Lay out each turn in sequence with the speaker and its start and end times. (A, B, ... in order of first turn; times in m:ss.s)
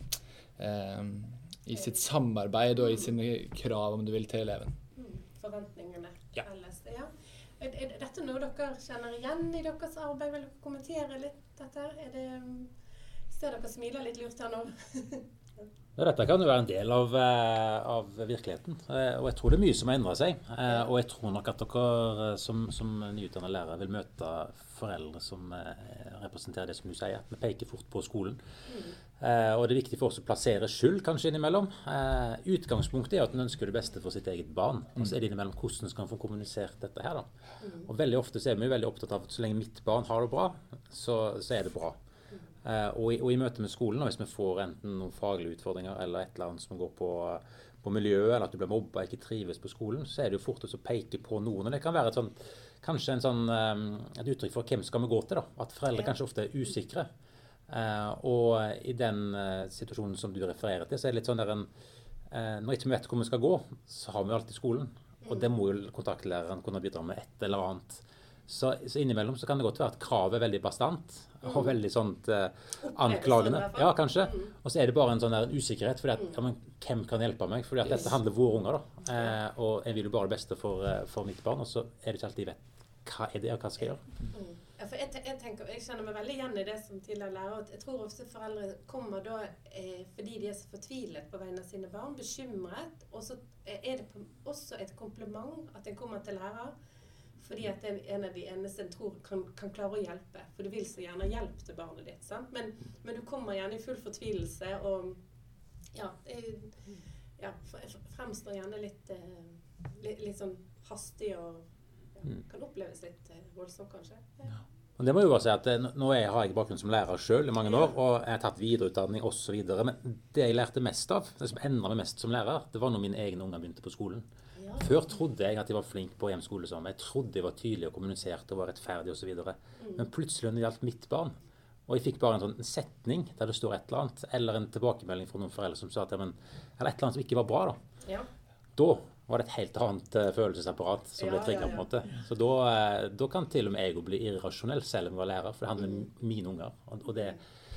0:00.6-0:04.8 A
0:01.7-0:02.0 B
0:02.8-0:03.1 B
0:04.9-0:12.7 B
0:13.3-0:15.7 B
0:16.0-0:28.4 C
0:20.6-0:20.9 B
0:28.6-0:29.0 B
0:29.2-0:37.3 C
0:37.6-0:37.9 B
0:37.8-0:42.0 C
0:42.6-0:57.1 C
0:57.7-1:01.7 C
1:02.3-1:24.1 C
1:05.2-1:05.5 B
1:11.4-1:11.7 B
1:12.8-1:14.5 B
1:23.8-1:36.7 B
1:37.4-1:45.2 B
1:45.9-1:54.6 B
1:55.0-2:04.2 C
1:57.6-1:58.0 B
2:04.5-2:05.0 B
2:04.8-2:11.3 C
2:09.8-2:10.1 B
2:11.9-2:17.8 C
2:18.0-2:18.3 B
2:18.8-2:27.4 C
2:21.2-2:21.9 B
2:27.1-2:27.4 B